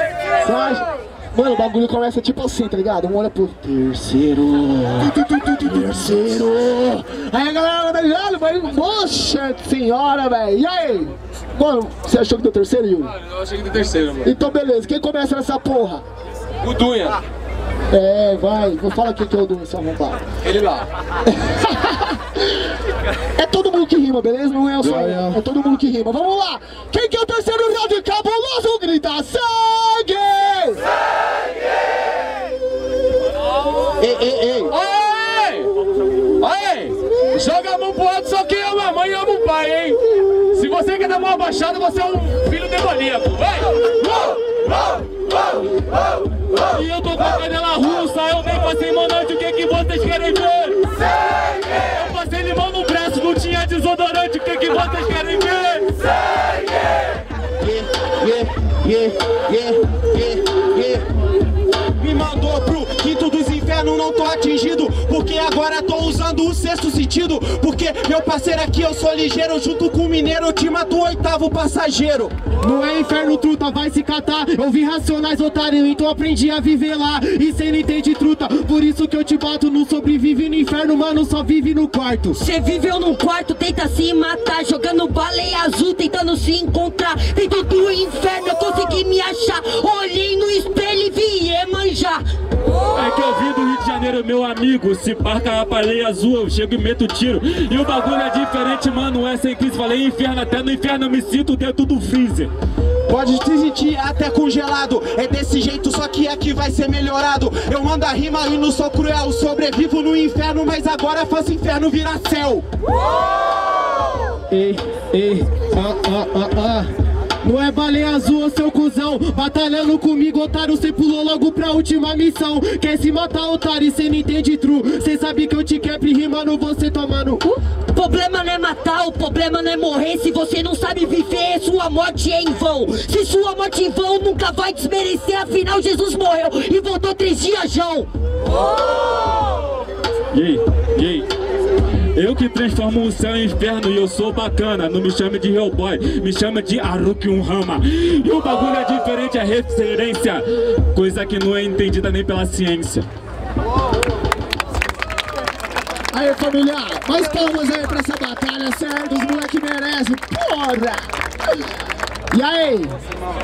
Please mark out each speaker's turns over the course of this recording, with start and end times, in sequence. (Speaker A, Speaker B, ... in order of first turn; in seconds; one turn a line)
Speaker A: 0.4-13.1
Speaker B: 13.5-14.2
Speaker A: 14.2-16.0
Speaker B: 16.6-17.2
Speaker A: 17.9-20.2
Speaker B: 20.4-20.9
Speaker A: 21.4-22.2
Speaker A: 23.4-30.9
Speaker C: 24.8-25.4
Speaker D: 34.0-34.7
Speaker B: 34.7-35.7
Speaker B: 36.4-44.2
Speaker E: 46.5-50.9
Speaker E: 51.7-56.0
Speaker D: 57.6-61.1
Speaker D: 62.0-72.3
Speaker C: 72.6-82.4
Speaker F: 82.3-92.2
Speaker E: 92.9-102.5
Speaker D: 103.1-112.7
Speaker C: 114.5-116.9
Speaker C: 117.4-127.5
Speaker F: 127.8-138.1
Speaker E: 140.3-141.3
Speaker E: 142.2-153.1
Speaker A: 156.1-161.1
Speaker A: 162.3-162.9